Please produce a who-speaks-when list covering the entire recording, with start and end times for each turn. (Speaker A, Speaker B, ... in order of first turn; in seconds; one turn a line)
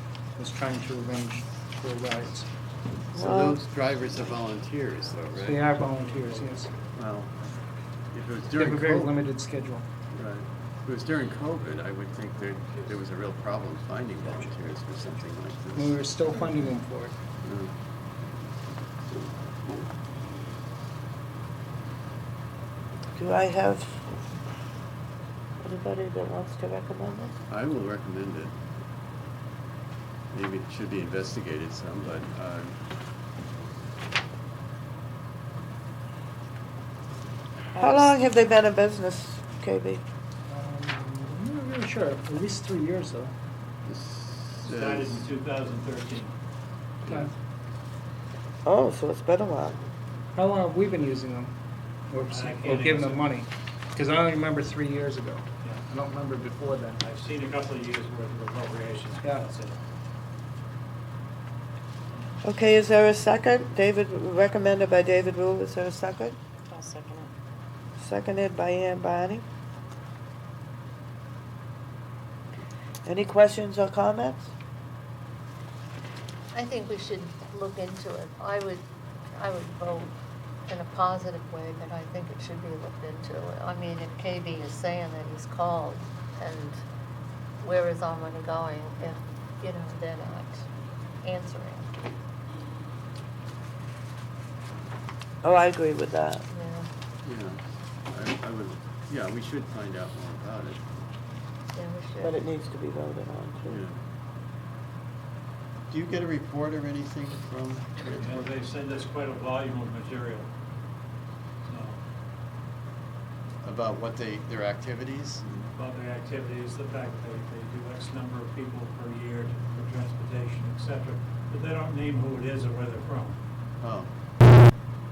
Speaker A: 0.4-2.5
Speaker B: 3.1-3.6
Speaker C: 3.1-5.6
Speaker A: 5.4-6.7
Speaker C: 6.9-7.5
Speaker C: 8.1-9.2
Speaker A: 8.6-9.8
Speaker C: 10.1-16.4
Speaker A: 15.7-17.1
Speaker C: 17.4-17.7
Speaker B: 23.1-24.2
Speaker B: 25.6-27.3
Speaker C: 27.5-28.5
Speaker C: 30.3-32.7
Speaker B: 37.7-40.0
Speaker A: 40.5-43.3
Speaker C: 43.9-45.3
Speaker D: 44.6-46.3
Speaker C: 47.0-47.3
Speaker B: 48.6-49.8
Speaker A: 50.3-51.5
Speaker A: 52.1-57.0
Speaker D: 52.3-53.3
Speaker D: 57.0-59.8
Speaker B: 62.4-66.4
Speaker B: 68.0-69.4
Speaker B: 73.0-74.5
Speaker E: 76.5-80.2
Speaker E: 80.7-86.8
Speaker E: 87.6-90.7
Speaker E: 91.2-91.9
Speaker B: 95.4-96.4
Speaker E: 96.5-96.9
Speaker C: 97.2-100.8
Speaker E: 101.7-102.4
Speaker B: 102.2-103.8
Speaker C: 103.7-104.0
Speaker C: 105.9-108.6
Speaker D: 108.2-110.5
Speaker D: 111.6-112.0
Speaker C: 113.6-115.7
Speaker D: 115.7-123.4
Speaker C: 123.8-124.1